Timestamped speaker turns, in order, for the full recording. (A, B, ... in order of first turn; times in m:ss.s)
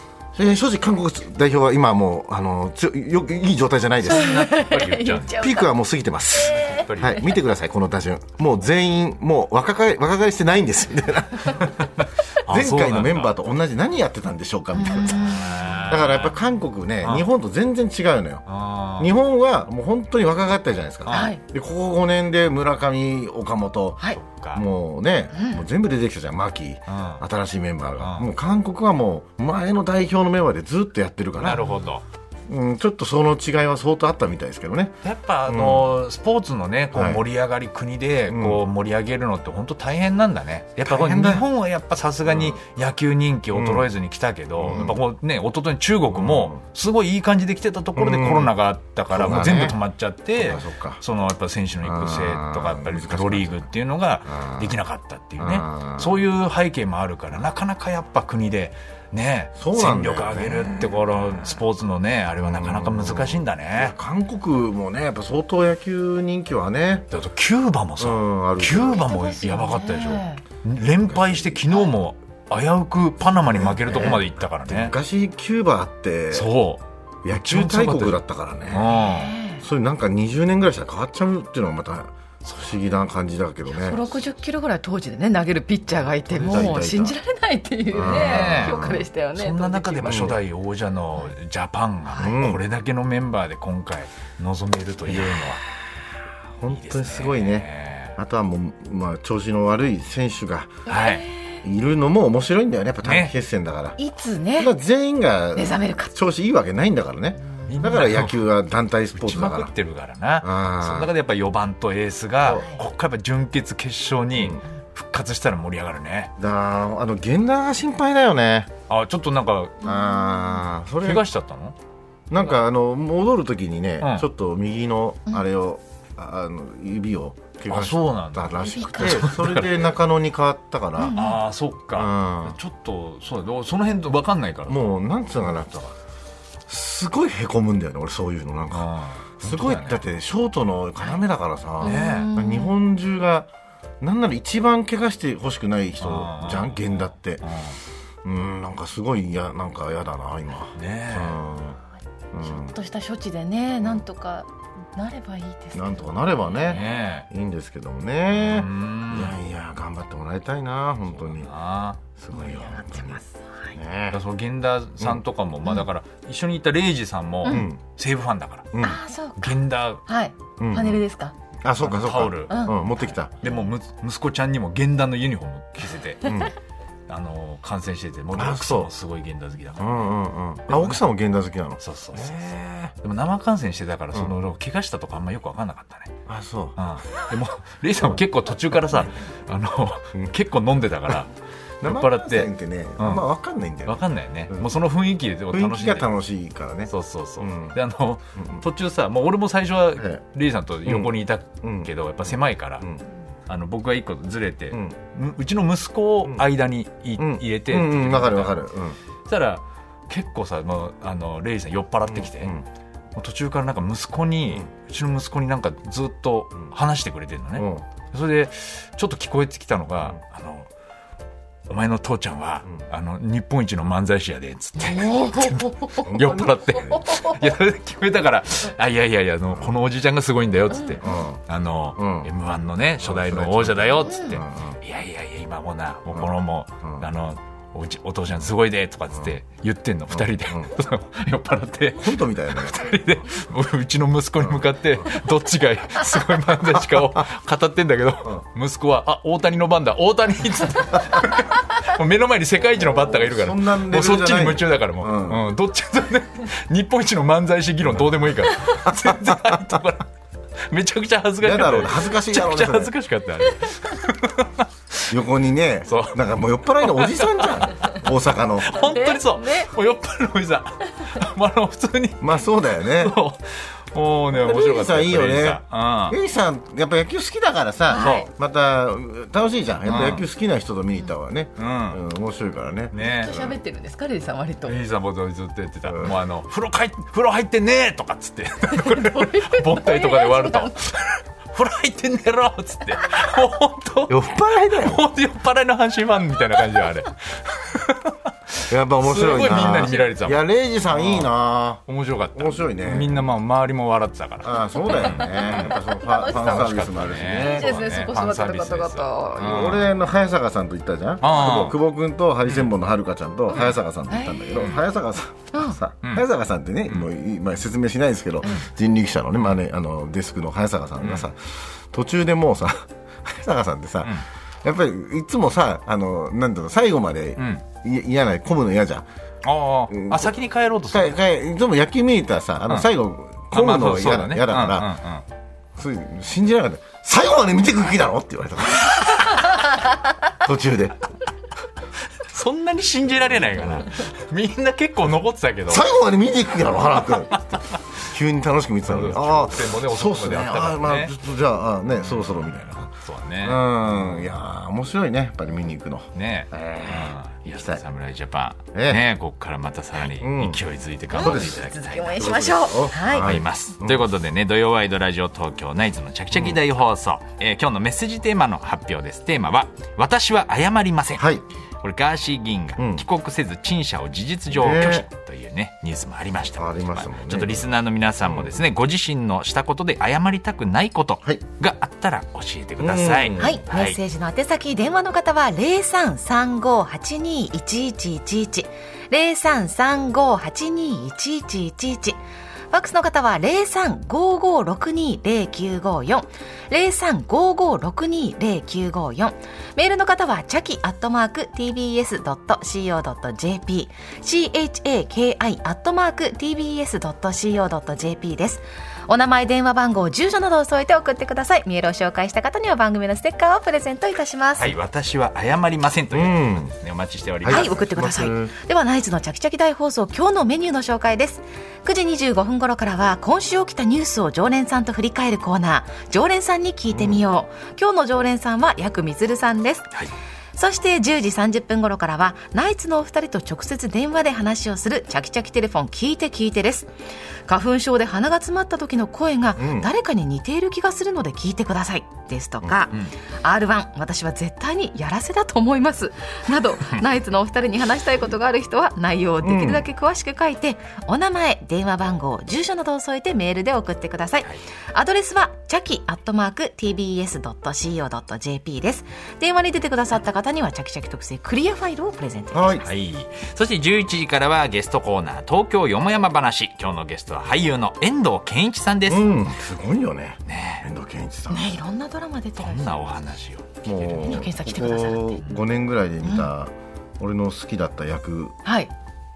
0:00.3-0:04.5 A
0:04.0-0:05.5 B
0:04.2-0:05.7 C
0:05.4-0:11.7 A
0:06.5-0:06.8 C
0:06.6-0:07.3 B
0:11.6-0:13.3 B
0:12.5-0:18.4 A
0:14.7-0:15.8 C
0:15.1-0:16.4 B
0:18.5-0:19.1 B
0:19.0-0:31.6 A
0:21.0-0:21.4 B
0:21.1-0:21.4 C
0:24.2-0:24.6 B
0:25.4-0:25.6 C
0:26.9-0:27.2 B
0:28.0-0:28.3 B
0:31.4-0:32.0 B
0:32.5-0:35.9 A
0:35.0-1:03.9 B
0:36.9-0:37.2 A
0:38.3-0:38.6 A
0:40.9-0:41.5 A
0:42.3-0:42.6 A
0:43.5-0:43.9 A
0:44.6-0:45.0 A
0:46.1-0:46.6 A
0:48.0-0:48.5 A
0:49.1-0:49.8 A
0:50.4-0:51.0 A
0:51.8-0:53.7 A
0:54.3-0:54.7 A
0:55.4-0:56.2 A
0:59.6-1:01.6 A
1:02.4-1:07.1 A
1:07.1-1:15.0 B
1:08.0-1:09.1 A
1:09.1-1:10.4 C
1:11.0-1:11.6 A
1:13.5-1:16.5 A
1:16.3-1:19.4 B
1:17.2-1:19.0 A
1:18.8-1:19.6 C
1:19.6-1:24.1 A
1:22.4-1:22.8 B
1:23.7-1:30.3 C
1:26.2-1:27.2 A
1:26.3-1:26.8 B
1:27.9-1:29.1 A
1:28.0-1:35.6 B
1:30.0-1:30.4 A
1:32.2-1:32.6 A
1:35.1-1:35.6 A
1:36.6-1:40.9 A
1:36.7-1:38.2 B
1:40.9-1:41.3 B
1:40.9-1:41.6 C
1:41.6-1:44.0 A
1:43.0-1:43.3 B
1:44.0-1:44.7 C
1:44.6-1:49.7 A
1:45.6-1:46.1 C
1:47.7-1:48.4 B
1:49.1-1:56.3 B
1:50.4-1:51.1 A
1:52.5-1:52.8 C
1:54.4-1:54.6 A
1:56.4-1:58.7 A
1:58.9-1:59.8 B
1:59.8-2:01.3 A
1:59.8-2:00.6 C
2:01.0-2:01.8 B
2:02.3-2:11.3 A
2:04.0-2:04.3 B
2:07.7-2:09.9 B
2:08.8-2:09.2 C
2:11.0-2:11.4 C
2:11.2-2:14.8 B
2:11.9-2:12.6 A
2:14.7-2:16.0 A
2:16.7-2:23.5 A
2:18.7-2:20.0 B
2:21.8-2:22.3 B
2:21.8-2:22.8 C
2:24.0-2:27.4 A
2:26.0-2:27.8 B
2:28.2-2:31.8 A
2:30.8-2:31.4 B
2:32.3-2:32.8 A
2:32.4-2:36.4 C
2:35.7-2:41.5 A
2:36.6-2:37.3 B
2:38.3-2:39.4 B
2:41.2-2:42.0 B
2:42.2-2:43.2 A
2:42.3-2:43.8 C
2:43.7-2:44.2 A
2:44.1-2:48.7 B
2:47.4-2:47.8 A
2:48.7-2:49.0 A
2:48.8-2:51.3 C
2:49.4-2:50.0 B
2:50.6-2:51.0 A
2:51.6-2:53.4 A
2:51.8-2:56.4 B
2:56.2-2:56.5 A
2:57.1-3:00.1 B
2:58.3-2:58.9 A
2:59.8-3:02.9 A
3:00.7-3:01.0 B
3:01.8-3:06.2 B
3:06.3-3:06.8 A
3:06.8-3:13.3 B
3:11.8-3:14.7 A
3:13.9-3:16.1 B
3:15.5-3:17.8 A
3:16.9-3:22.9 B
3:18.4-3:18.6 A
3:20.0-3:20.2 A
3:20.8-3:22.3 A
3:23.5-3:28.6 B
3:27.2-3:29.0 A
3:29.3-3:32.6 B
3:32.1-3:32.6 A
3:33.2-3:40.7 B
3:37.6-3:37.8 A
3:41.7-4:20.1 B
3:44.8-3:46.1 C
3:46.0-3:47.0 A
3:47.1-3:47.3 C
3:51.0-3:51.4 A
3:52.0-3:52.3 A
3:53.0-3:54.8 A
3:54.1-3:54.4 C
4:00.1-4:00.7 A
4:02.0-4:02.9 A
4:04.4-4:05.0 A
4:07.0-4:07.2 A
4:12.8-4:15.5 A
4:17.9-4:19.7 A
4:20.7-4:25.2 B
4:21.4-4:22.9 A
4:25.1-4:28.8 A
4:25.9-4:26.2 B
4:26.8-4:28.0 B
4:28.6-4:36.2 B
4:28.7-4:29.7 C
4:32.2-4:33.2 A
4:34.3-4:43.6 A
4:37.9-4:38.3 C
4:37.9-4:38.3 B
4:39.9-4:40.2 B
4:41.6-4:42.0 B
4:42.9-4:43.4 B
4:43.0-4:44.8 C
4:44.6-5:01.4 B
4:45.9-4:46.1 A
4:48.7-4:50.8 C
4:54.1-4:55.0 A
4:58.7-5:01.8 A
5:01.9-5:10.0 B
5:02.4-5:03.2 A
5:04.4-5:07.9 A
5:05.0-5:06.7 C
5:07.4-5:09.5 C
5:09.4-5:29.1 A
5:11.2-5:11.8 B
5:13.6-5:14.6 C
5:14.6-5:14.8 B
5:15.5-5:15.8 C
5:21.0-5:21.3 B
5:27.4-5:27.6 B
5:29.4-5:31.2 B
5:29.9-5:30.3 A
5:30.9-5:34.9 A
5:33.5-5:35.2 B
5:35.8-5:39.4 A
5:40.3-5:41.0 A
5:42.3-5:45.9 B
5:45.7-5:47.4 A
5:48.0-5:57.8 A
5:48.9-5:51.1 B
5:52.0-5:54.2 B
5:56.2-6:02.4 B
5:58.7-5:59.0 A
6:00.2-6:00.6 A
6:01.1-6:03.3 C
6:01.1-6:04.1 A
6:02.9-6:11.3 B
6:06.3-6:06.6 A
6:11.2-6:11.4 A
6:11.8-6:24.0 B
6:12.8-6:13.0 A
6:14.5-6:15.0 A
6:16.6-6:17.7 A
6:18.2-6:18.5 A
6:22.8-6:23.6 A
6:23.4-6:32.2 C
6:32.7-6:54.7 C
6:54.6-6:57.9 B
6:56.1-6:56.7 A
6:57.4-6:58.5 A
6:57.5-7:10.0 C
7:06.9-7:07.2 A
7:10.5-7:16.9 C
7:17.5-7:42.9 C
7:19.6-7:19.9 A
7:29.4-7:29.8 A
7:42.5-7:42.9 A
7:42.8-7:49.4 B
7:49.1-7:51.8 A
7:50.5-7:50.9 B
7:51.5-7:53.0 C
7:52.6-7:54.5 B
7:53.8-7:58.6 A
7:54.2-7:55.4 C
7:56.2-7:56.5 C
7:58.6-7:58.9 C